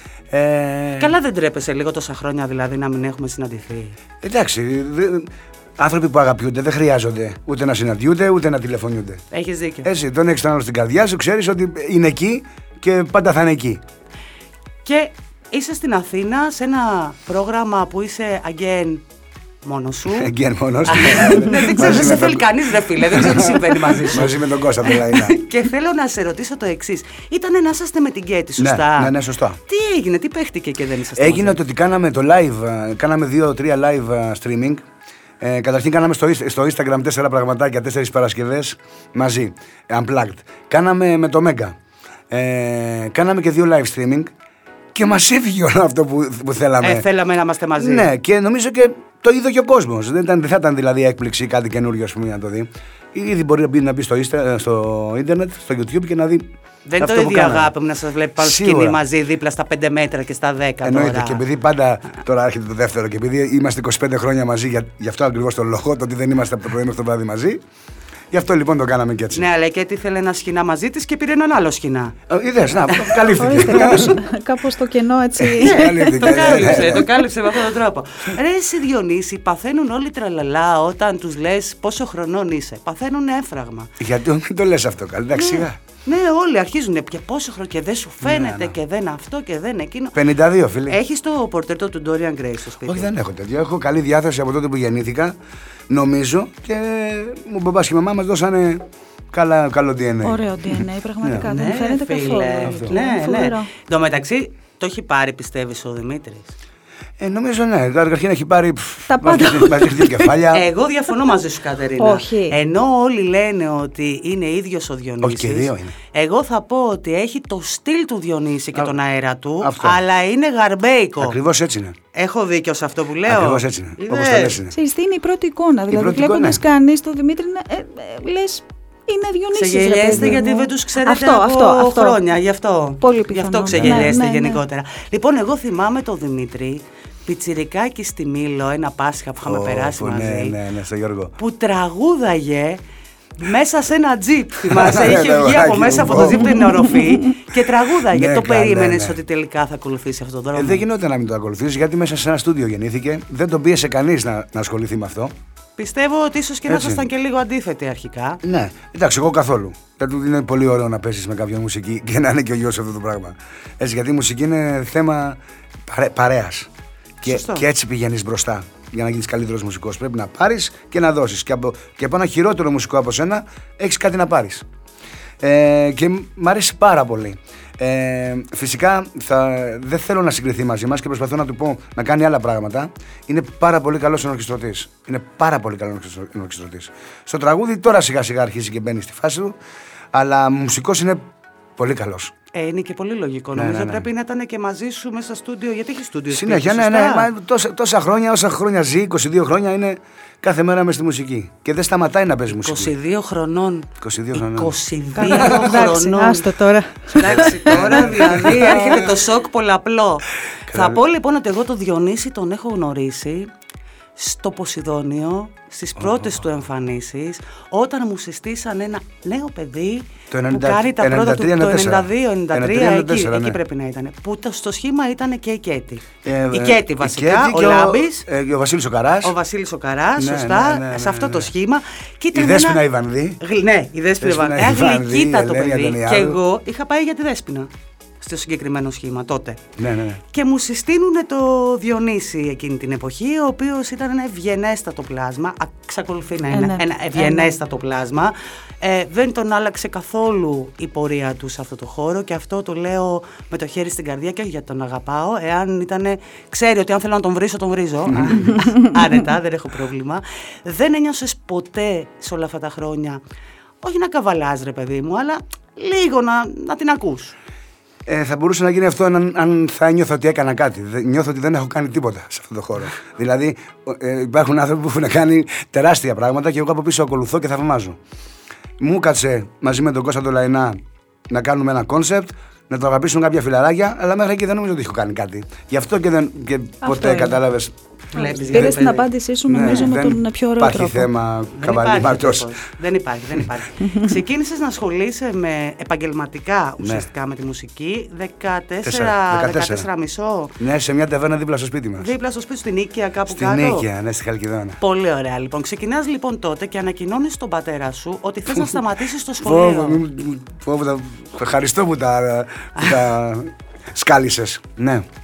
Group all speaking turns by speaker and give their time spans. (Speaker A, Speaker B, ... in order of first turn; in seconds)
Speaker A: 0.3-1.1, 4.2-9.2, 9.8-13.8, 20.1-25.4, 28.6-29.6, 31.2-34.9, 35.4-41.8, 42.3-44.3, 44.9-47.1, 47.8-57.7, 58.4-59.0, 60.8-67.6, 68.3-69.4, 72.3-74.2, 75.4-77.1, 84.0-85.8, 88.2-88.8, 90.2-91.0, 92.8-95.4, 95.9-101.5, 102.7-103.0, 107.2-110.7, 115.2-116.0, 119.6-120.0, 121.2-122.0, 123.3-124.8, 125.9-126.6, 133.7-134.2, 139.4-141.3, 144.7-146.7, 148.1-149.2, 150.6-155.3, 156.7-157.1, 158.4-166.7, 167.2-174.7, 175.4-189.6, 190.1-191.2, 191.8-192.3, 193.6-194.1, 196.3-202.9, 204.0-206.0, 207.2-209.2, 210.7-211.0, 216.0-216.4, 220.3-223.6, 226.2-229.3, 230.2-231.5, 232.3-233.4, 234.2-236.4, 239.8-240.2, 258.1-258.5, 268.1-278.0, 278.8-287.7, 288.5-288.8, 289.5-292.5, 296.8-297.1, 298.8-299.9, 300.6-302.1, 303.3-304.8, 309.4-315.1
Speaker B: 1.0-4.0, 9.3-9.9, 14.8-19.0, 19.6-20.3, 20.8-31.6, 46.8-48.1, 56.9-61.4, 69.3-72.2, 72.9-73.3, 75.6-84.0, 85.4-90.2, 90.9-93.1, 101.4-106.5, 110.5-121.4, 122.1-124.6, 129.5-140.6, 141.4-142.8, 143.4-150.8, 155.8-158.4, 167.2-167.7, 192.5-197.3, 202.5-206.5, 207.1-213.5, 214.2-228.3, 229.2-232.8, 233.4-239.6, 240.3-263.2, 263.8-267.4, 288.1-289.1, 291.6-300.6, 302.0-303.9, 304.8-310.0
Speaker C: 73.4-77.1, 100.2-103.7, 109.1-110.3, 112.0-112.6, 124.7-132.2, 133.0-134.6, 205.2-208.5, 246.5-247.5, 286.8-287.4, 288.2-291.1